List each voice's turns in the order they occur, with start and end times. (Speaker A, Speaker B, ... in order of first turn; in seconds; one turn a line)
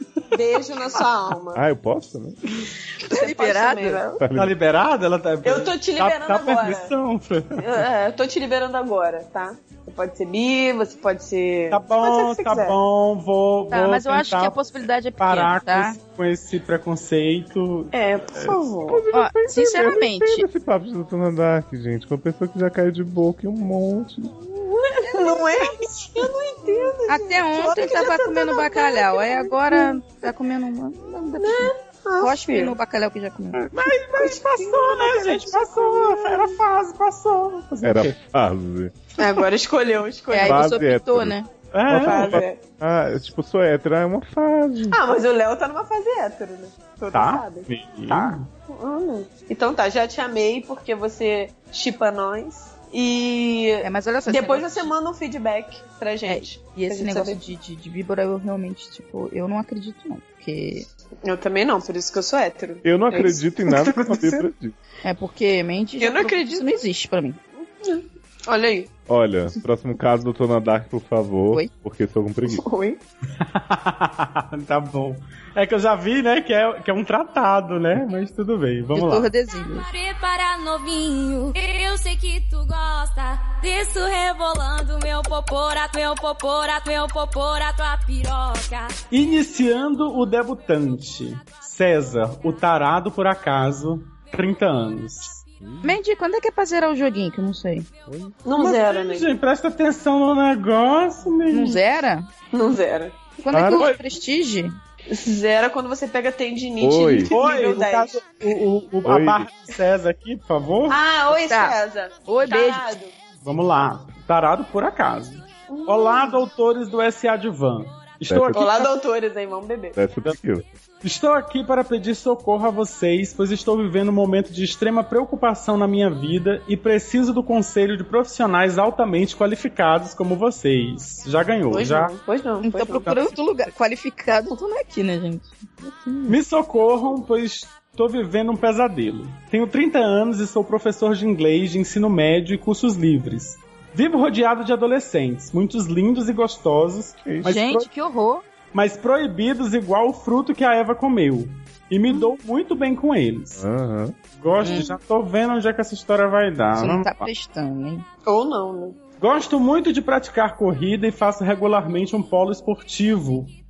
Speaker A: 0.3-1.6
Speaker B: 1.5-2.4
Speaker C: 3.0-4.0
Speaker A: 3.0-4.2
Speaker B: 4.2-4.5
Speaker D: 4.3-7.6
Speaker A: 5.4-6.9
Speaker A: 7.5-12.8
Speaker D: 11.7-14.6
Speaker C: 13.7-16.0
Speaker D: 15.2-18.6
Speaker A: 17.9-19.0
Speaker B: 18.9-24.3
Speaker C: 19.1-20.4
Speaker A: 24.5-30.0
Speaker C: 27.1-33.6
Speaker A: 31.4-32.8
Speaker D: 33.6-38.1
Speaker A: 34.1-36.6
Speaker B: 37.8-38.9
Speaker A: 39.2-40.8
Speaker C: 40.3-41.5
Speaker B: 40.4-41.4
Speaker D: 41.7-42.4
Speaker B: 41.9-45.0
Speaker A: 41.9-42.6
Speaker A: 44.9-47.7
Speaker D: 47.1-47.4
Speaker B: 47.7-48.4
Speaker D: 48.1-48.5
Speaker A: 48.7-57.4
Speaker C: 53.8-54.9
Speaker C: 56.2-60.9
Speaker A: 61.2-64.4
Speaker B: 62.8-64.7
Speaker C: 65.0-67.4
Speaker A: 66.0-66.8
Speaker A: 67.8-68.9
Speaker B: 69.1-72.7
Speaker A: 72.5-73.0
Speaker D: 73.4-79.3
Speaker C: 78.9-79.9
Speaker E: 80.0-88.9
Speaker D: 89.1-95.4
Speaker B: 95.6-96.0
Speaker C: 95.8-97.9
Speaker B: 98.1-98.3
Speaker A: 98.4-99.3
Speaker D: 98.6-101.8
Speaker C: 101.5-102.3
Speaker A: 102.5-103.2
Speaker C: 103.4-104.8
Speaker B: 103.5-104.0
Speaker A: 105.1-108.2
Speaker B: 106.8-107.3
Speaker D: 107.3-111.0
Speaker B: 109.0-109.5
Speaker A: 110.9-113.1
Speaker C: 111.5-111.7
Speaker C: 112.3-112.9
Speaker D: 113.4-118.9
Speaker A: 115.7-116.4
Speaker B: 118.3-118.6
Speaker A: 118.5-120.0
Speaker B: 120.0-120.7
Speaker D: 121.0-132.1
Speaker A: 131.7-133.3
Speaker C: 132.6-136.3
Speaker D: 136.3-147.9
Speaker B: 147.2-147.6
Speaker C: 147.4-148.4
Speaker D: 148.7-153.6
Speaker B: 153.6-154.1
Speaker D: 154.4-157.3
Speaker C: 154.6-154.9
Speaker C: 156.8-158.0
Speaker A: 158.2-159.0
Speaker D: 159.2-163.5